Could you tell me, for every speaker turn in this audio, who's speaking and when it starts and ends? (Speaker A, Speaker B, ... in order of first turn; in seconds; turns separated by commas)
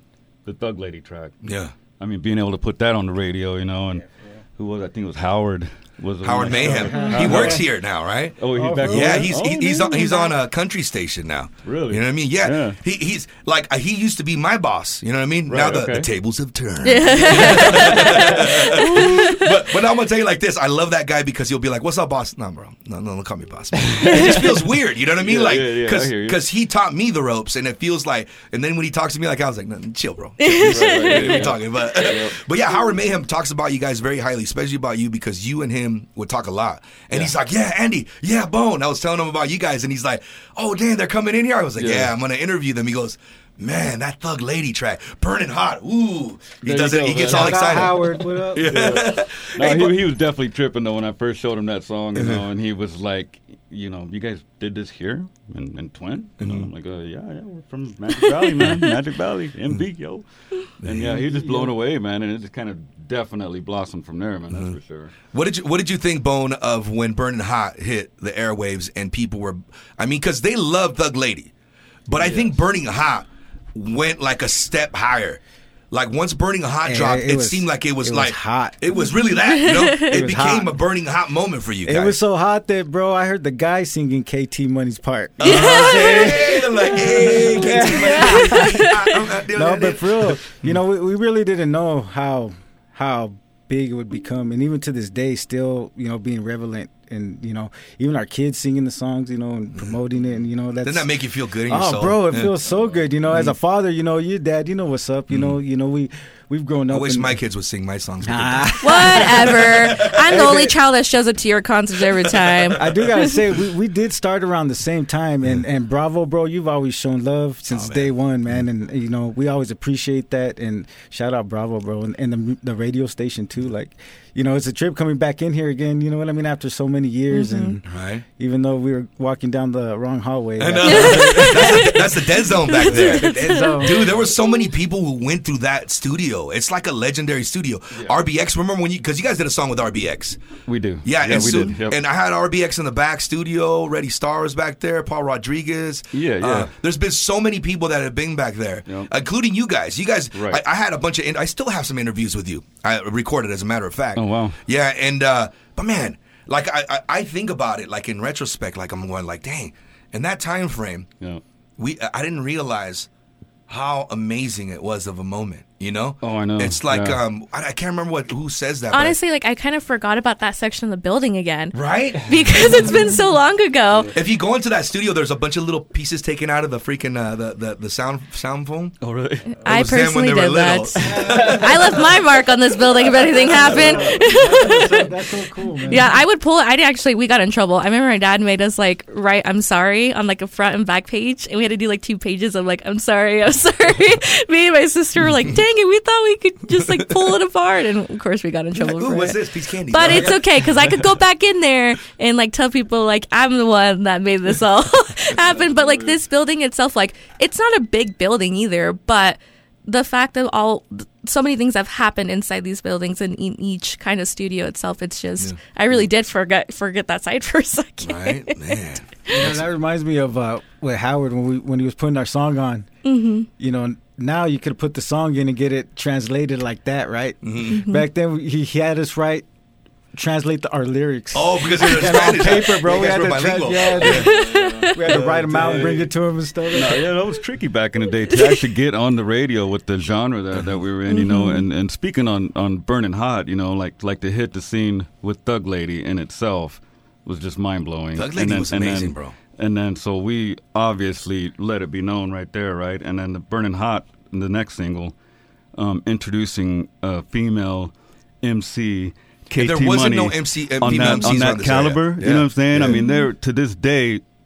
Speaker A: 0.4-1.4, Speaker B: 1.4-1.7, Speaker A: 2.0-7.7, Speaker B: 6.2-50.0, Speaker C: 6.5-7.6, Speaker A: 8.4-10.1, Speaker C: 8.5-9.3, Speaker D: 9.9-10.3, Speaker A: 11.6-12.8, Speaker A: 15.5-16.1, Speaker D: 16.8-19.6, Speaker A: 17.2-19.1, Speaker A: 23.8-24.5, Speaker D: 24.1-24.5, Speaker A: 25.1-26.4, Speaker D: 30.4-31.5, Speaker A: 30.6-32.4, Speaker A: 41.8-42.1, Speaker A: 46.6-65.1, Speaker C: 47.2-48.9, Speaker B: 52.1-52.4, Speaker B: 56.4-56.7, Speaker D: 58.5-58.9, Speaker B: 60.8-61.1, Speaker C: 60.9-61.7, Speaker B: 64.5-64.8, Speaker B: 65.3-71.5, Speaker B: 72.1-75.4, Speaker A: 72.1-72.5, Speaker B: 75.9-82.2, Speaker C: 76.8-78.8, Speaker D: 79.3-80.2, Speaker C: 80.0-80.7, Speaker C: 81.8-101.1, Speaker B: 85.4-90.7, Speaker D: 85.4-89.1, Speaker B: 100.8-102.5, Speaker C: 101.7-107.4, Speaker B: 105.3-105.6, Speaker B: 106.9-110.4, Speaker C: 108.2-110.7, Speaker D: 108.8-113.2, Speaker B: 112.2-112.7, Speaker C: 112.7-132.0, Speaker B: 117.7-118.1, Speaker D: 127.3-127.7, Speaker B: 127.8-128.2, Speaker B: 130.6-140.4, Speaker D: 130.8-134.6, Speaker C: 133.1-134.0, Speaker A: 140.7-142.0, Speaker B: 141.0-161.1, Speaker A: 146.1-146.7, Speaker A: 150.3-150.6, Speaker A: 154.2-154.6, Speaker B: 161.8-163.1, Speaker B: 163.7-169.2, Speaker A: 166.2-167.2, Speaker D: 168.9-174.1, Speaker B: 171.7-173.1, Speaker B: 174.1-178.9, Speaker A: 179.0-179.6, Speaker B: 179.6-182.0, Speaker D: 179.6-185.1, Speaker C: 181.0-181.6, Speaker A: 181.1-182.2, Speaker A: 182.8-184.7, Speaker C: 183.5-186.2, Speaker D: 185.8-218.8, Speaker B: 196.9-197.3, Speaker B: 198.8-200.5, Speaker A: 205.5-206.2, Speaker B: 218.0-219.6, Speaker C: 219.3-222.9, Speaker D: 223.0-223.5, Speaker C: 223.6-229.4, Speaker B: 227.4-227.8, Speaker D: 227.7-228.1, Speaker C: 230.1-237.1, Speaker B: 231.3-234.3, Speaker A: 234.0-236.1, Speaker D: 234.1-235.1, Speaker A: 236.7-255.1, Speaker B: 240.5-240.8, Speaker D: 241.1-241.7, Speaker B: 248.1-249.3, Speaker A: 255.7-257.9, Speaker A: 258.4-264.2, Speaker B: 259.6-263.0, Speaker D: 262.9-263.3